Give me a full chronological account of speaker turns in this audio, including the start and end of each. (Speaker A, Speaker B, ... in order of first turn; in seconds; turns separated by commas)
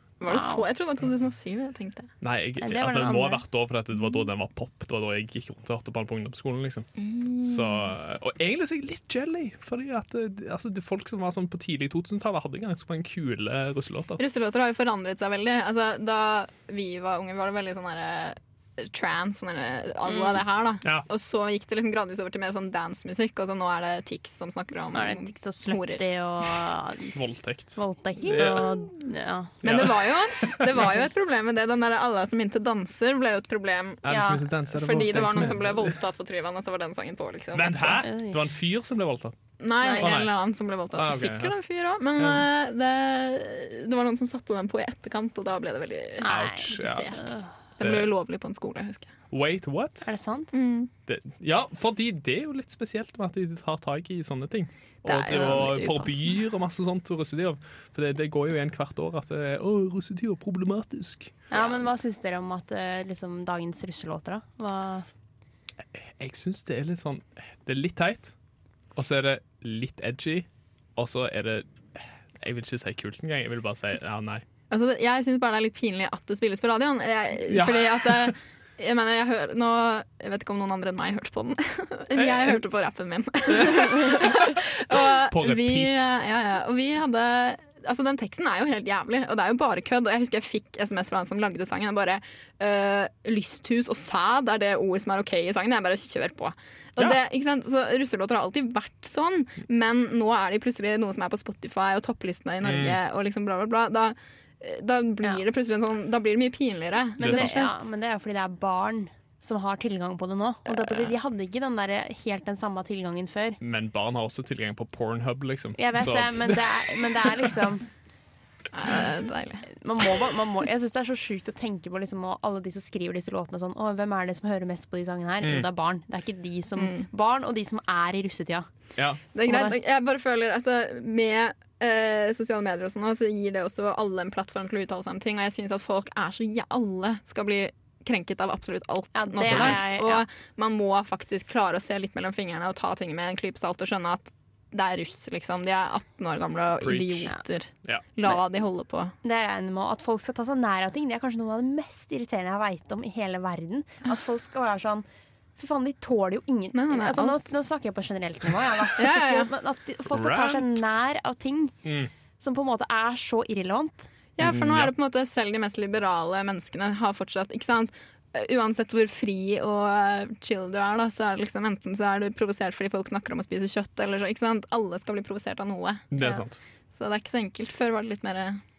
Speaker A: 0.2-2.1, Speaker B: 0.2-0.7, Speaker C: 2.2-6.9, Speaker B: 2.6-3.4, Speaker A: 7.0-7.9, Speaker C: 7.4-14.2, Speaker A: 14.2-26.0, Speaker B: 20.1-20.4, Speaker B: 24.9-27.1, Speaker C: 27.1-28.7, Speaker B: 27.8-29.6, Speaker A: 29.6-34.0, Speaker C: 29.6-30.8, Speaker C: 34.0-36.0, Speaker B: 34.1-34.4, Speaker A: 34.7-38.0, Speaker C: 37.5-40.3, Speaker B: 37.9-38.4, Speaker A: 39.6-47.2, Speaker B: 39.8-40.1, Speaker C: 40.9-41.6, Speaker C: 42.2-42.5, Speaker B: 46.2-47.5, Speaker C: 46.2-47.1, Speaker A: 47.8-49.1, Speaker C: 47.8-48.1, Speaker C: 49.3-50.1, Speaker B: 50.0-50.5, Speaker A: 50.5-50.9, Speaker C: 51.1-61.3, Speaker A: 55.1-55.5, Speaker B: 55.1-56.1, Speaker B: 61.5-65.1, Speaker C: 65.9-68.3, Speaker C: 68.9-74.4, Speaker A: 74.7-107.8, Speaker C: 77.5-78.3, Speaker C: 82.1-82.6, Speaker C: 83.5-84.6, Speaker C: 85.3-86.1, Speaker C: 102.6-103.0, Speaker C: 107.2-107.5, Speaker B: 107.2-113.6, Speaker C: 113.6-117.4, Speaker B: 115.8-117.9, Speaker A: 118.7-119.7, Speaker B: 119.7-128.7, Speaker C: 125.4-125.7, Speaker A: 126.8-127.1, Speaker C: 129.0-129.2, Speaker A: 129.3-149.1, Speaker B: 129.4-129.7, Speaker B: 139.1-140.2, Speaker C: 139.4-139.8, Speaker C: 146.8-147.3, Speaker B: 149.2-155.0, Speaker B: 155.6-161.7, Speaker A: 156.7-157.4, Speaker A: 159.0-159.5, Speaker C: 160.1-160.8, Speaker C: 161.8-162.1, Speaker B: 162.4-164.1, Speaker A: 164.4-176.1, Speaker C: 164.4-164.9, Speaker C: 176.1-176.6, Speaker B: 176.2-176.4, Speaker A: 176.9-178.6